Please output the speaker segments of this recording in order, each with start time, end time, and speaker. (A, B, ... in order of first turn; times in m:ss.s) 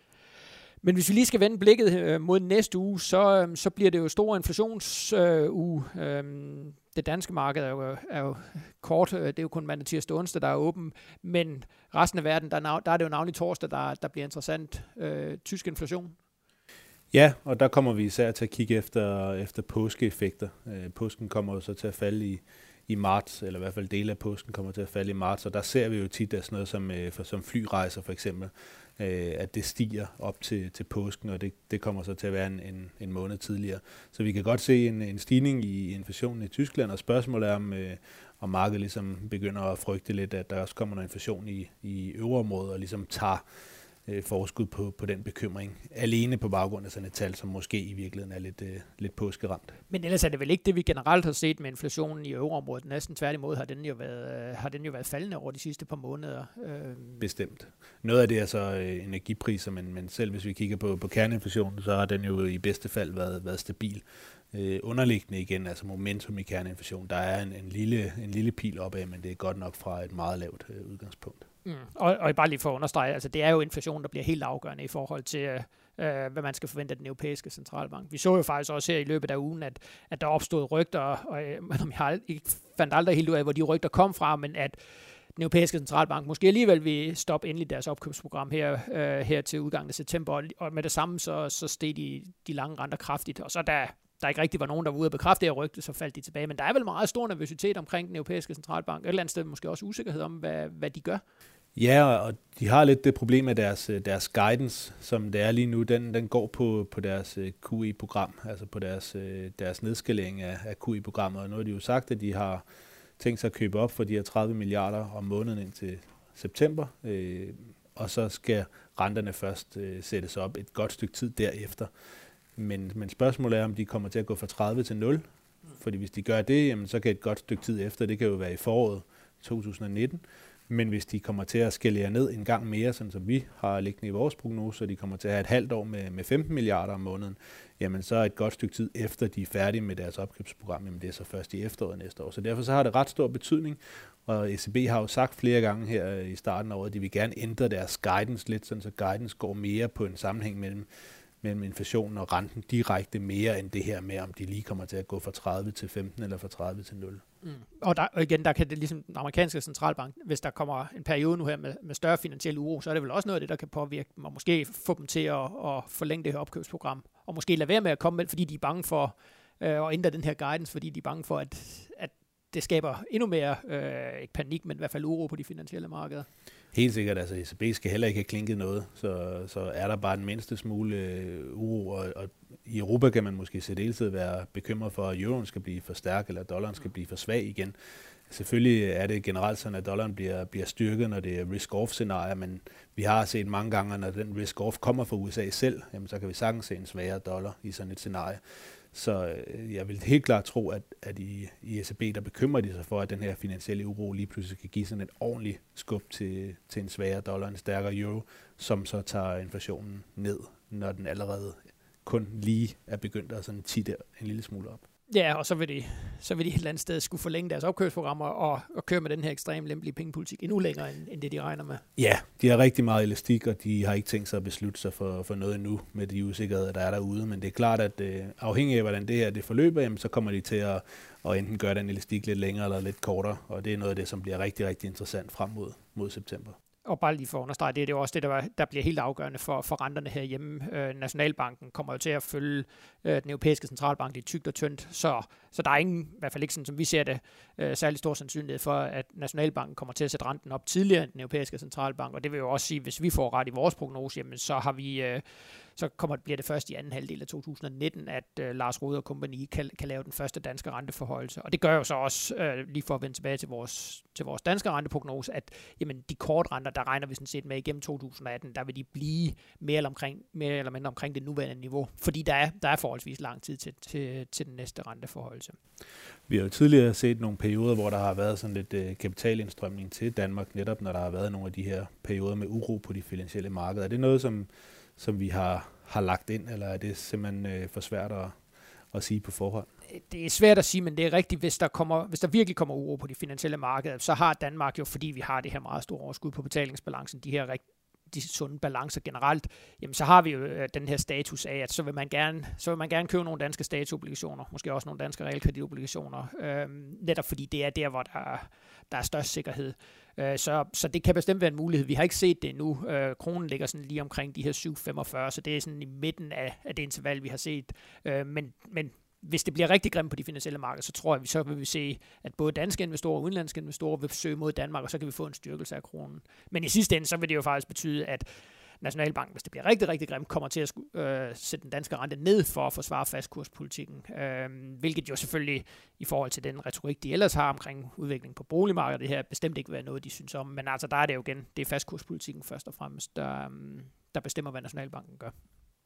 0:00.8-0:16.2 A
0:17.1-0:43.4 B
0:44.1-0:49.8 B
0:49.9-0:57.2 A
0:57.2-1:11.4 B
1:11.6-1:24.8 A
1:25.4-1:41.2 A
1:41.8-1:52.6 B
1:53.2-2:01.9 B
2:02.6-2:05.2 B
2:05.8-2:30.9 B
2:31.4-2:37.2 B
2:37.4-2:56.3 A
2:56.7-3:07.7 B
3:08.3-3:18.4 B
3:18.9-3:34.8 B
3:35.1-3:41.8 A
3:42.0-3:56.6 B
3:56.9-4:15.2 A
4:15.8-4:35.6 A
4:36.3-4:48.3 B
4:48.9-4:49.7 B
4:49.9-5:28.3 A
5:28.8-5:45.3 A